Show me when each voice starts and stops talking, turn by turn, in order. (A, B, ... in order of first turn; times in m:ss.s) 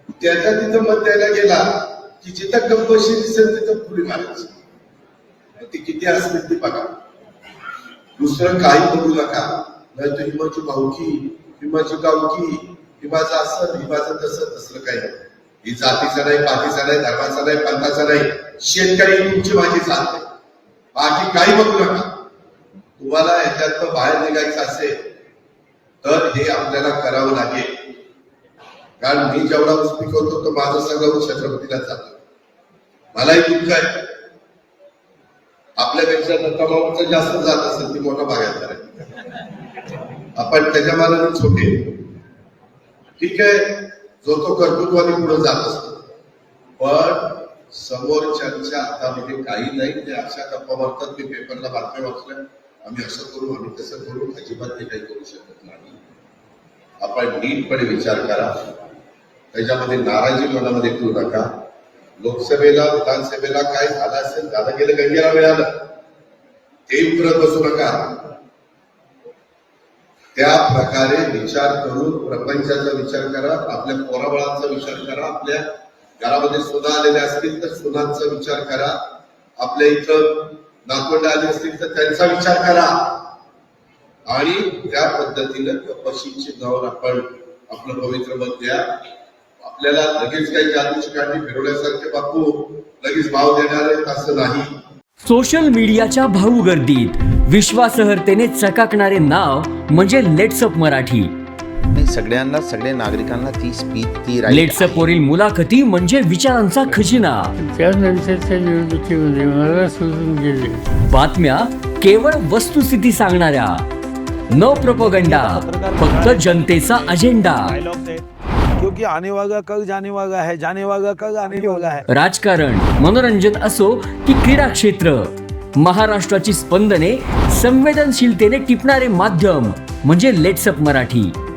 0:00.2-0:04.6 A
0:05.6-0:06.9 A
0:08.2-0:20.2 A
0:20.9-0:22.1 A
0:23.0-0:25.0 A
0:26.0-0:27.7 A
0:29.0-0:32.2 A
0:33.1-0:34.0 A
0:35.8-0:39.0 A
0:40.4-0:41.9 A
0:43.2-0:46.0 A
0:46.8-0:56.0 A
0:57.0-0:58.7 A
0:59.5-1:01.5 A
1:02.2-1:05.7 A
1:06.9-1:08.2 A
1:10.4-1:15.7 A
1:16.2-1:19.0 A
1:19.6-1:23.1 A
1:24.3-1:28.8 A
1:29.6-1:34.7 A
1:35.2-1:41.3 B
1:41.9-1:45.1 C
1:44.5-1:47.5 B
1:47.6-1:50.8 D
1:51.1-1:53.8 B
1:54.5-1:57.8 B
1:54.6-1:58.2 E
1:58.8-2:02.1 E
2:02.1-2:11.3 B